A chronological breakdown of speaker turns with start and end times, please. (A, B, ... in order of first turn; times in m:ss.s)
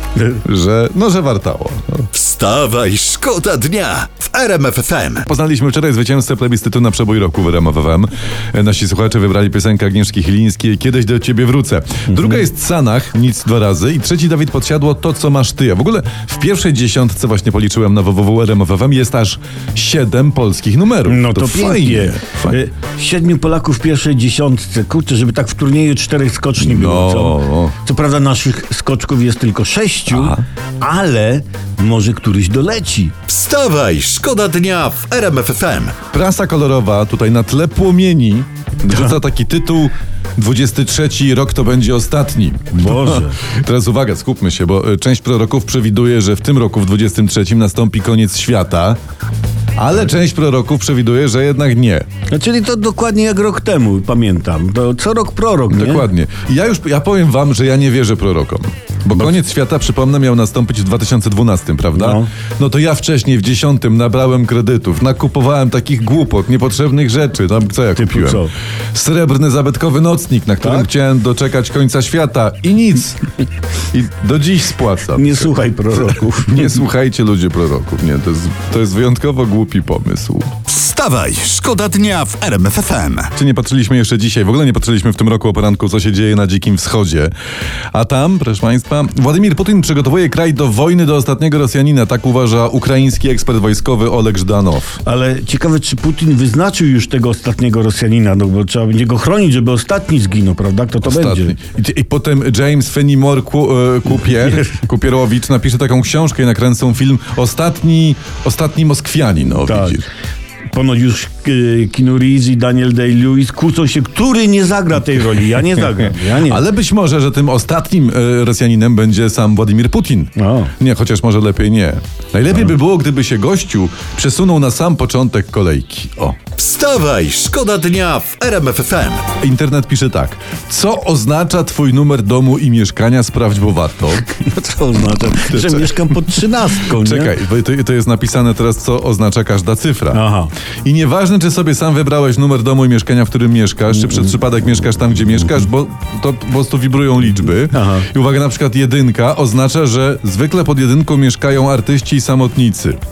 0:00.3-0:02.1 A
0:02.1-0:05.2 B
0:05.2-0:22.6 A
0:12.1-0:12.4 C
0:21.0-0:33.1 C
0:26.6-0:27.7 A
0:30.1-0:30.4 A
0:33.3-0:36.0 B
0:36.1-0:49.0 A
0:42.7-0:43.4 C
0:49.8-0:52.0 A
0:52.3-0:56.0 C
0:55.7-1:13.3 A
1:01.9-1:02.3 C
1:08.0-1:08.5 C
1:10.6-1:10.9 C
1:13.9-1:20.5 A
1:15.1-1:16.8 C
1:20.7-1:23.3 B
1:23.3-1:27.3 A
1:27.9-1:35.0 A
1:35.0-1:41.6 C
1:41.0-1:50.0 A
1:49.6-1:50.0 C
1:50.7-1:56.6 C
1:56.4-2:06.4 A
2:00.4-2:00.7 C
2:06.6-2:09.3 B
2:09.4-2:14.2 A
2:14.3-2:17.3 C
2:15.5-2:16.0 A
2:16.9-2:20.2 A
2:20.1-2:20.5 C
2:20.8-2:33.0 A
2:27.7-2:28.1 C